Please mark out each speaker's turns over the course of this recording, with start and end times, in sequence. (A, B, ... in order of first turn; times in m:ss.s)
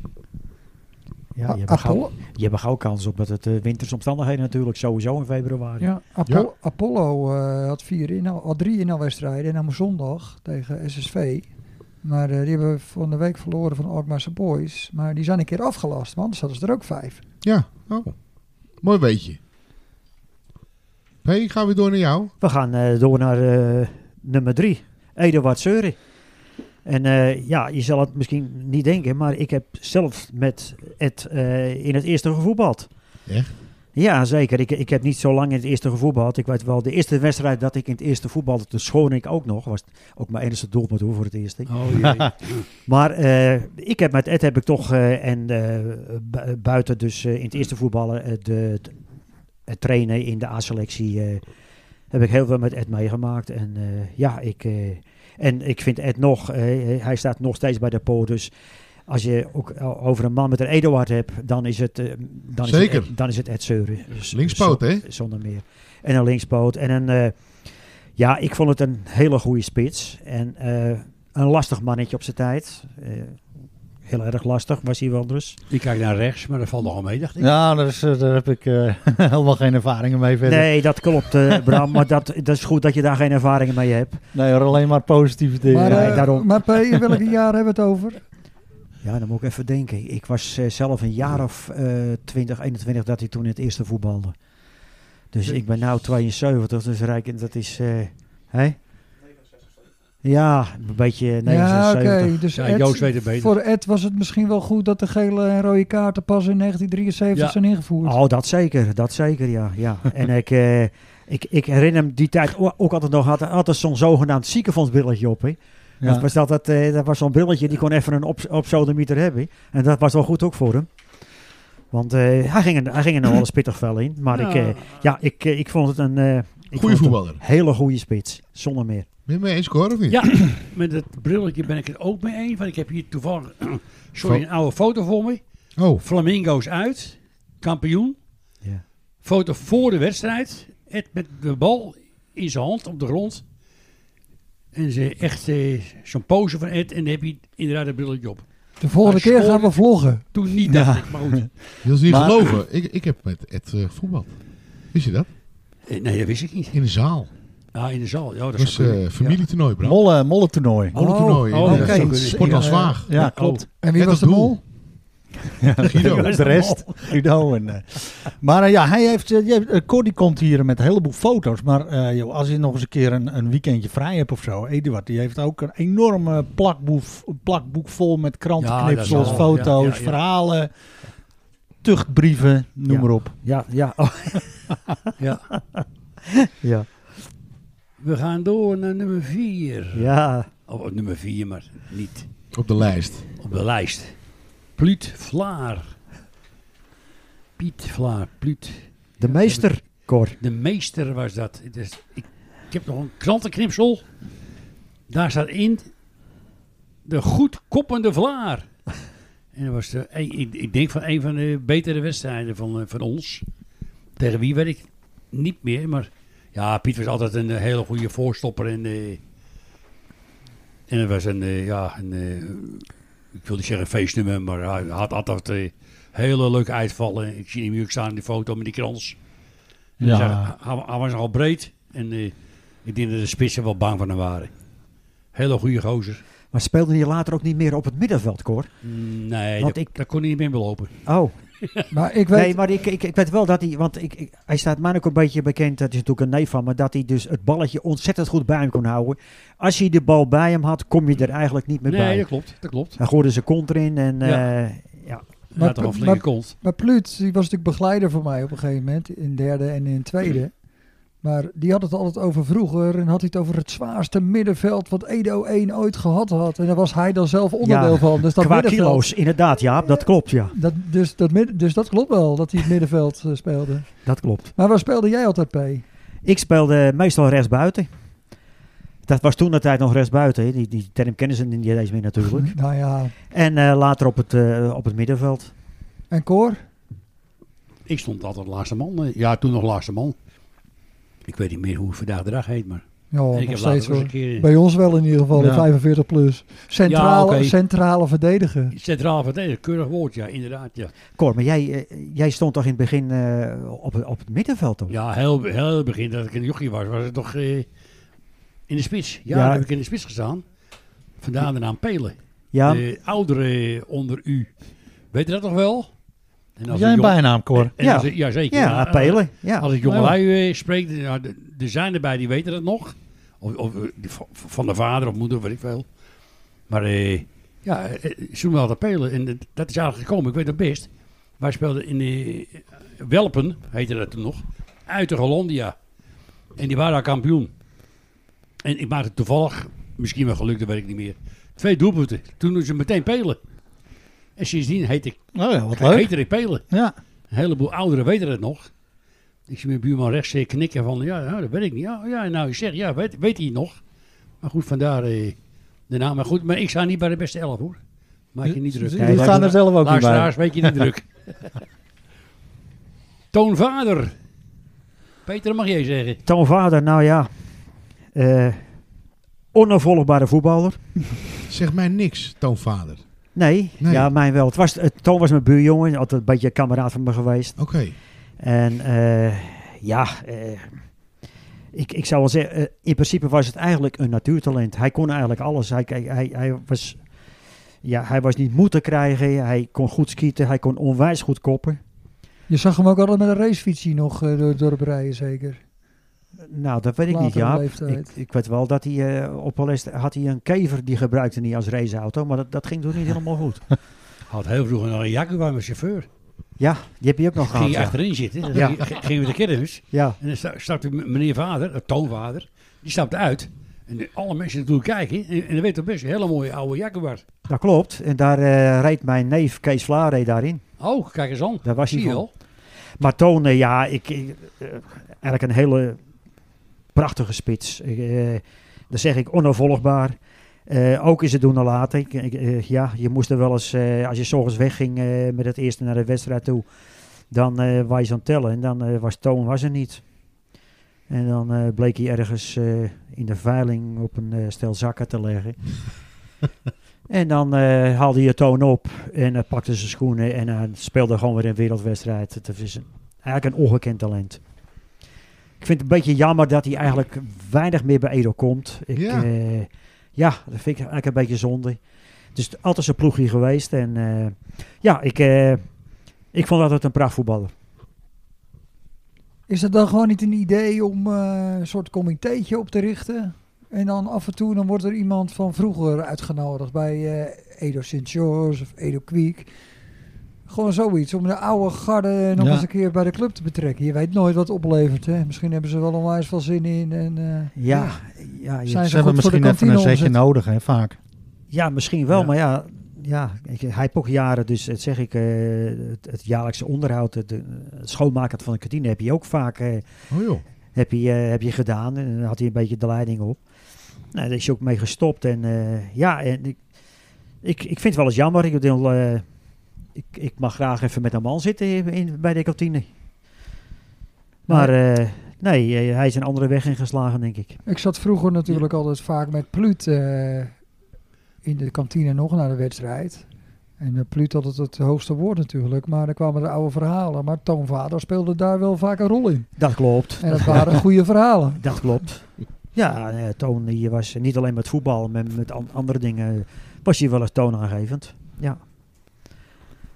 0:01.4-0:05.9 A
0:01.5-0:02.1 B
0:05.8-0:11.5 B
0:12.0-0:17.2 B
0:17.4-0:18.2 C
0:18.8-0:19.4 C
0:21.2-0:22.3 C
0:22.4-0:26.0 A
0:26.8-0:32.9 A
0:34.0-0:41.7 A
0:41.7-0:42.7 D
0:42.9-0:48.9 A
0:49.7-0:51.4 A
0:52.1-0:58.5 A
0:59.1-1:07.4 A
1:02.6-1:03.1 C
1:04.3-1:05.1 C
1:08.2-1:13.4 A
1:14.1-1:15.6 A
1:15.7-1:17.5 D
1:17.4-1:22.0 E
1:20.4-1:24.2 A
1:24.3-1:26.3 E
1:25.7-1:28.2 B
1:25.8-1:26.6 A
1:29.0-1:34.4 A
1:35.3-1:38.8 A
1:40.2-1:42.4 A
1:41.4-1:48.2 B
1:42.5-1:43.5 D
1:48.0-2:00.9 A
1:56.0-1:56.3 E
2:01.9-2:09.1 A
2:04.3-2:04.9 D
2:06.7-2:07.4 C
2:09.3-2:10.3 C
2:10.1-2:15.4 D
2:14.2-2:14.4 C
2:15.8-2:16.0 C
2:16.0-2:18.2 D
2:19.2-2:23.4 D
2:24.7-2:28.4 D
2:28.8-2:30.2 B
2:29.0-2:29.8 D
2:30.3-2:31.5 D
2:30.7-2:31.5 E
2:31.8-2:34.3 C
2:32.0-2:32.5 E
2:34.9-2:35.3 C
2:35.9-2:36.8 D
2:36.7-2:37.3 C
2:37.7-2:39.4 D
2:38.6-2:40.0 C
2:39.8-2:41.0 E
2:40.9-2:43.2 C
2:41.0-2:42.0 A
2:41.5-2:43.7 D
2:41.5-2:43.7 E
2:42.6-2:42.9 B
2:43.7-2:44.6 B
2:43.9-2:44.6 C
2:45.6-3:00.7 E
2:45.8-2:46.4 C
2:45.9-2:47.0 D
2:58.6-3:00.2 D
2:59.1-2:59.5 A
3:01.8-3:03.4 E
3:02.9-3:05.0 A
3:05.2-3:05.5 D
3:06.3-3:06.9 A
3:08.0-3:10.1 D
3:09.9-3:10.5 A
3:10.7-3:12.3 D
3:12.5-3:13.3 C
3:13.4-3:14.2 D
3:14.8-3:16.0 D
3:17.6-3:19.7 D
3:19.2-3:20.4 A
3:20.4-3:24.1 D
3:25.1-3:25.9 D
3:27.1-3:28.7 D
3:29.6-3:33.4 D
3:34.2-3:39.2 D
3:40.9-3:49.2 D
3:50.0-3:50.5 E
3:50.0-3:52.3 D
3:52.8-3:54.5 D
3:55.3-3:56.2 D
3:56.5-3:58.7 A
3:58.8-4:00.9 D
3:59.6-3:59.9 A
4:01.1-4:01.4 A
4:01.6-4:01.9 D
4:01.9-4:02.6 B
4:02.3-4:12.3 A
4:11.9-4:13.0 D
4:13.0-4:15.2 A
4:14.2-4:14.5 D
4:15.5-4:16.6 D
4:15.6-4:20.5 B
4:21.2-4:29.1 B
4:27.6-4:30.5 A
4:30.5-4:34.0 B
4:34.0-4:34.5 A
4:34.6-4:35.8 B
4:36.2-4:37.9 A
4:39.1-4:42.5 A
4:42.3-4:43.1 B
4:43.3-4:45.5 A
4:46.1-4:46.6 B
4:47.9-4:50.2 D
4:51.2-4:54.5 D
4:53.1-4:58.7 B
4:55.3-4:55.7 E
4:56.8-4:57.6 D
4:58.7-5:00.9 D
5:01.2-5:05.0 A
5:04.9-5:07.7 D
5:08.7-5:10.4 D
5:09.3-5:09.6 A
5:11.2-5:14.5 D
5:12.5-5:12.8 A
5:15.1-5:15.9 D
5:16.6-5:25.9 D
5:16.7-5:17.7 E
5:17.8-5:19.7 A
5:19.8-5:20.2 E
5:26.7-5:30.9 D
5:31.4-5:35.8 D
5:36.6-5:37.5 D
5:38.6-5:43.4 D
5:44.4-5:46.6 D
5:45.4-5:46.1 E
5:46.7-5:47.0 E
5:47.3-5:48.7 D
5:49.5-5:53.8 D
5:54.4-5:55.4 D
5:55.9-5:57.8 D
5:58.3-6:01.1 D
5:58.4-6:00.8 E
5:59.0-5:59.5 A
6:03.3-6:04.1 D
6:05.3-6:06.2 D
6:06.3-6:07.3 A
6:08.2-6:08.6 A
6:09.5-6:11.0 A
6:11.5-6:13.0 C
6:13.4-6:17.6 A
6:13.8-6:14.1 C
6:17.6-6:18.0 C
6:18.4-6:20.7 A
6:21.7-6:27.0 A
6:27.8-6:31.8 A
6:32.5-6:35.6 B
6:36.5-6:43.6 A
6:37.1-6:38.1 B
6:44.3-6:46.1 D
6:46.6-6:48.0 A
6:47.4-6:57.2 D
6:48.5-6:48.8 A
6:57.5-7:00.6 A
7:00.8-7:02.3 D
7:01.6-7:02.3 A
7:03.0-7:06.0 A
7:07.0-7:16.7 A
7:17.3-7:20.0 A
7:21.1-7:25.6 A
7:27.1-7:34.4 A
7:35.6-7:41.8 A
7:38.9-7:39.3 C
7:42.4-7:45.6 A
7:46.3-7:47.5 A
7:49.5-7:59.5 B
8:00.5-8:07.5 B
8:02.4-8:02.7 E
8:07.6-8:09.0 A
8:07.7-8:08.0 C
8:08.7-8:10.2 B
8:08.9-8:11.0 E
8:11.5-8:19.8 A
8:20.1-8:20.4 C
8:20.8-8:23.4 A
8:24.1-8:26.6 A
8:27.4-8:29.2 A
8:30.0-8:32.9 A
8:34.5-8:37.6 A
8:37.7-8:40.6 B
8:41.4-8:43.2 B
8:43.8-8:49.5 B
8:49.6-8:50.9 A
8:50.2-8:51.6 B
8:51.6-8:58.6 A